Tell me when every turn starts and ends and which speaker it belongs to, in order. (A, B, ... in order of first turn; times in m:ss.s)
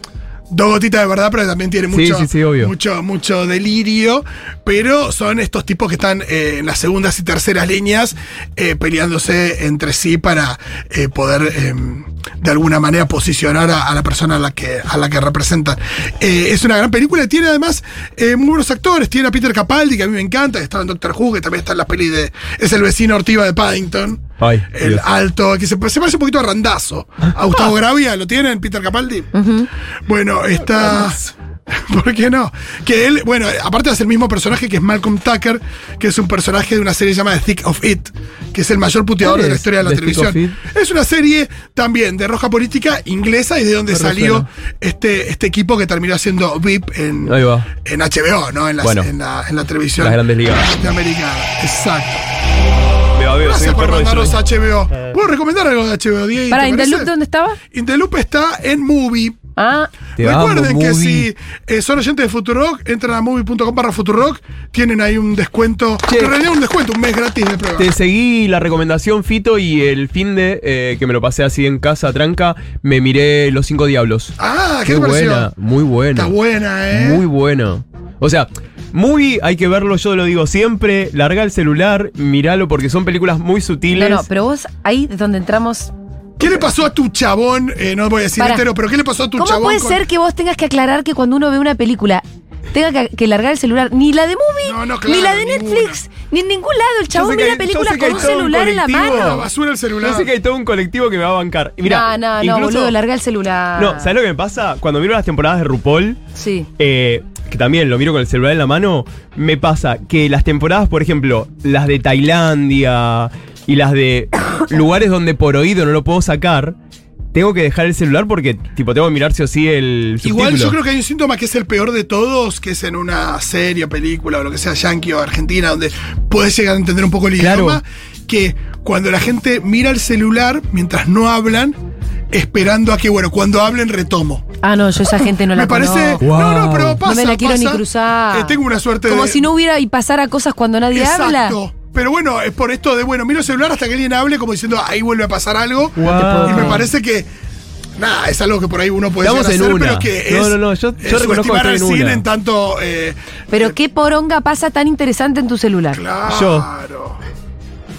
0:00.5-0:29.3 A
0:01.9-0:02.7 B
0:24.4-0:25.0 B
0:29.3-0:29.7 C
0:30.1-0:31.2 A
0:30.8-0:31.2 B
0:31.7-0:52.2 A
0:39.2-0:40.6 B
0:43.9-0:44.5 B
0:47.2-0:47.7 B
0:48.8-0:49.1 B
0:50.0-0:50.7 B
0:53.1-0:54.4 B
0:53.4-0:57.1 A
0:56.5-0:57.6 C
0:57.7-0:59.4 A
0:59.6-0:59.9 C
1:00.2-1:07.9 A
1:00.2-1:01.3 B
1:06.1-1:06.3 B
1:07.8-1:14.3 B
1:14.4-1:15.5 A
1:14.9-1:16.3 B
1:16.1-1:17.2 A
1:16.9-1:24.2 B
1:23.9-1:25.9 C
1:26.4-1:30.0 A
1:28.4-1:28.6 C
1:29.4-1:39.4 C
1:34.6-1:36.0 A
1:37.1-1:39.5 B
1:38.0-1:38.3 A
1:39.0-1:40.3 A
1:40.0-1:43.0 B
1:41.8-1:44.1 C
1:43.8-1:46.2 B
1:46.4-1:46.7 C
1:46.8-1:56.8 B
1:57.3-2:00.8 B
2:00.2-2:11.8 A
2:07.4-2:07.8 B
2:12.3-2:14.4 A
2:14.6-2:16.2 C
2:15.5-2:19.5 A
2:16.2-2:17.0 B
2:17.0-2:21.6 C
2:20.9-2:27.3 A
2:26.0-2:26.9 B
2:26.0-2:26.9 C
2:28.0-2:33.8 A
2:29.2-2:32.2 B
2:33.5-2:36.0 C
2:35.9-2:37.2 A
2:36.3-2:36.7 B